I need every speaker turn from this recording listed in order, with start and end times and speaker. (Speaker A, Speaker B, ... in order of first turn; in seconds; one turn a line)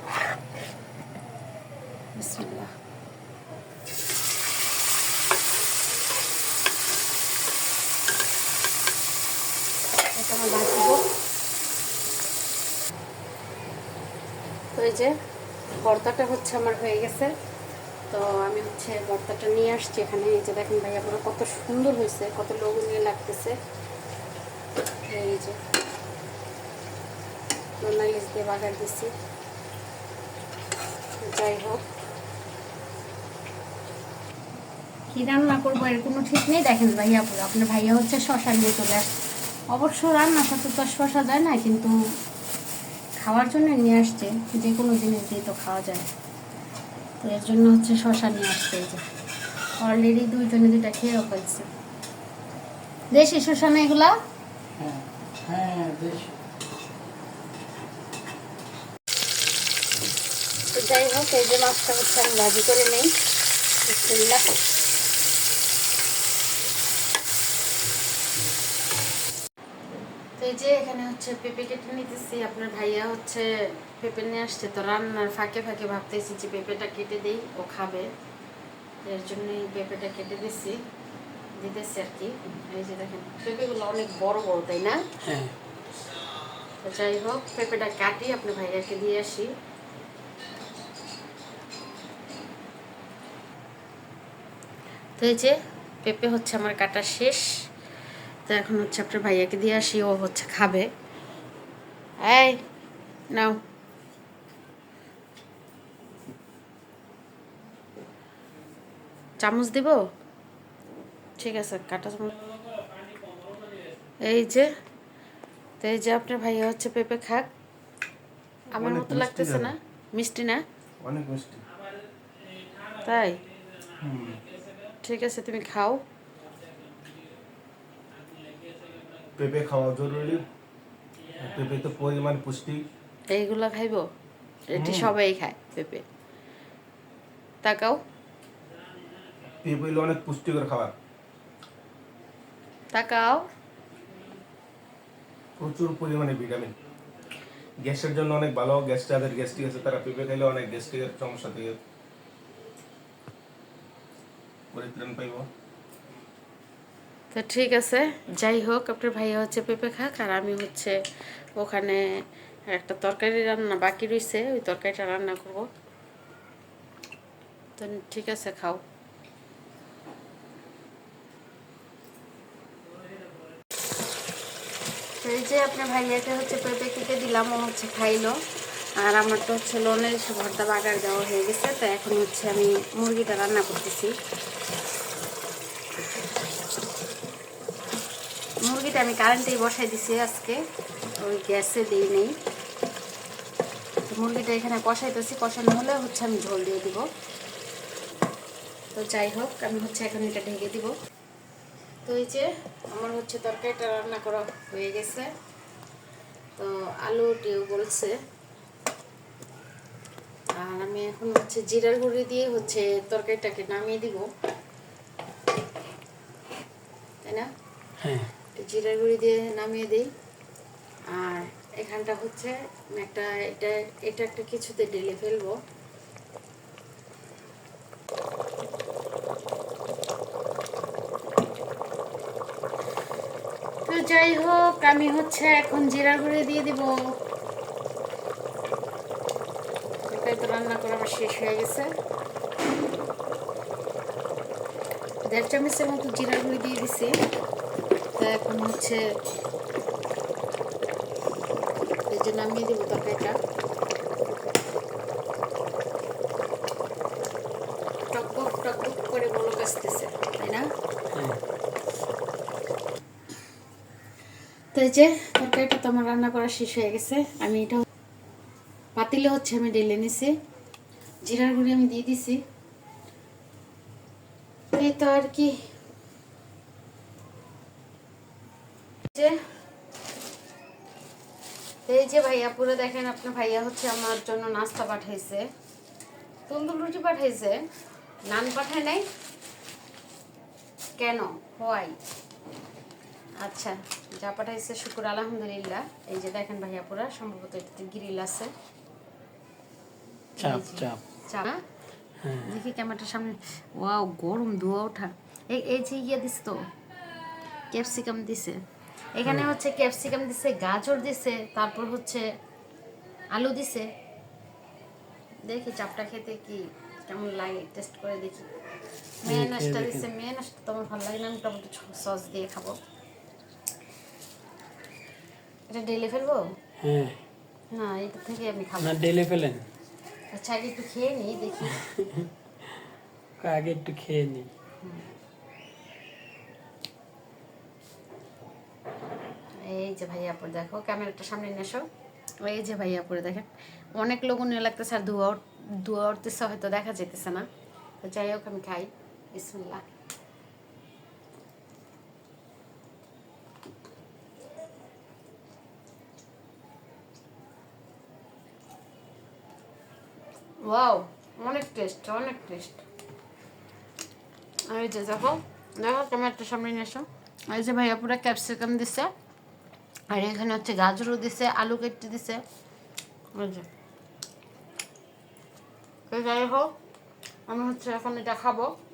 Speaker A: 2.1-2.7
Speaker A: 10.1-11.0
Speaker A: 14.7-15.2
Speaker A: 15.8-17.3
Speaker A: 18.1-23.6
Speaker A: 25.1-25.6
Speaker A: 27.8-29.1
Speaker A: 31.2-31.8
Speaker A: 35.1-39.1
Speaker A: 39.7-42.0
Speaker A: 43.2-46.1
Speaker A: 47.2-49.0
Speaker A: 49.8-51.7
Speaker A: 53.1-54.2
Speaker B: 54.8-56.3
Speaker A: 60.7-63.1
Speaker A: 63.8-64.5
Speaker A: 70.4-78.1
Speaker A: 79.0-80.8
Speaker A: 81.6-85.0
Speaker B: 85.2-85.5
Speaker A: 86.8-89.5
Speaker A: 95.2-97.5
Speaker A: 98.5-100.9
Speaker A: 102.2-102.6
Speaker A: 103.3-103.6
Speaker A: 109.4-110.0
Speaker A: 111.4-112.3
Speaker A: 114.2-114.7
Speaker A: 115.8-117.5
Speaker A: 118.7-120.6
Speaker C: 118.7-119.7
Speaker C: 121.0-121.6
Speaker A: 123.0-123.4
Speaker C: 124.0-124.4
Speaker A: 125.0-126.0
Speaker C: 129.3-130.4
Speaker C: 131.4-132.8
Speaker A: 133.3-134.1
Speaker A: 134.7-136.0
Speaker B: 134.7-135.1
Speaker A: 137.6-138.0
Speaker C: 139.6-140.9
Speaker A: 142.9-143.5
Speaker C: 145.6-146.7
Speaker C: 147.8-151.8
Speaker C: 154.7-155.5
Speaker A: 157.3-161.0
Speaker A: 161.6-162.1
Speaker A: 162.7-165.7
Speaker A: 167.8-168.8
Speaker A: 175.2-178.4
Speaker A: 179.0-184.1
Speaker A: 188.6-190.6
Speaker A: 191.2-192.3
Speaker A: 194.1-197.1
Speaker A: 198.9-200.9
Speaker A: 202.0-205.3
Speaker A: 206.6-208.2
Speaker A: 210.5-214.3
Speaker A: 217.2-217.5
Speaker B: 218.0-218.3
Speaker A: 218.5-220.1
Speaker A: 221.1-225.6
Speaker A: 233.8-237.2
Speaker A: 240.0-241.9
Speaker A: 245.3-247.1
Speaker A: 248.2-249.0
Speaker A: 252.1-253.4
Speaker A: 258.1-260.7
Speaker B: 261.1-261.4
Speaker A: 264.7-267.8
Speaker A: 268.9-270.3
Speaker A: 271.2-272.4
Speaker A: 274.7-275.6
Speaker A: 279.1-279.4
Speaker A: 281.9-285.5
Speaker A: 286.5-287.6
Speaker A: 288.3-289.1
Speaker A: 291.0-292.0
Speaker A: 293.4-298.5
Speaker A: 300.4-301.6
Speaker B: 300.4-301.0
Speaker B: 302.2-302.5
Speaker A: 302.4-306.6
Speaker A: 307.7-308.6
Speaker A: 309.1-312.2
Speaker A: 313.3-313.9
Speaker A: 315.5-318.5
Speaker A: 319.2-322.8
Speaker B: 319.2-320.1
Speaker A: 325.7-326.5
Speaker B: 326.8-327.2
Speaker A: 327.7-329.1
Speaker B: 328.8-329.6
Speaker A: 330.3-331.9
Speaker B: 331.7-332.7
Speaker B: 333.4-334.5
Speaker A: 334.8-335.1
Speaker A: 339.6-341.9
Speaker A: 342.4-347.5
Speaker A: 348.0-349.8
Speaker A: 360.6-362.8
Speaker A: 364.7-369.1
Speaker A: 370.1-372.4
Speaker A: 373.3-373.7
Speaker A: 376.1-376.7
Speaker A: 377.5-378.8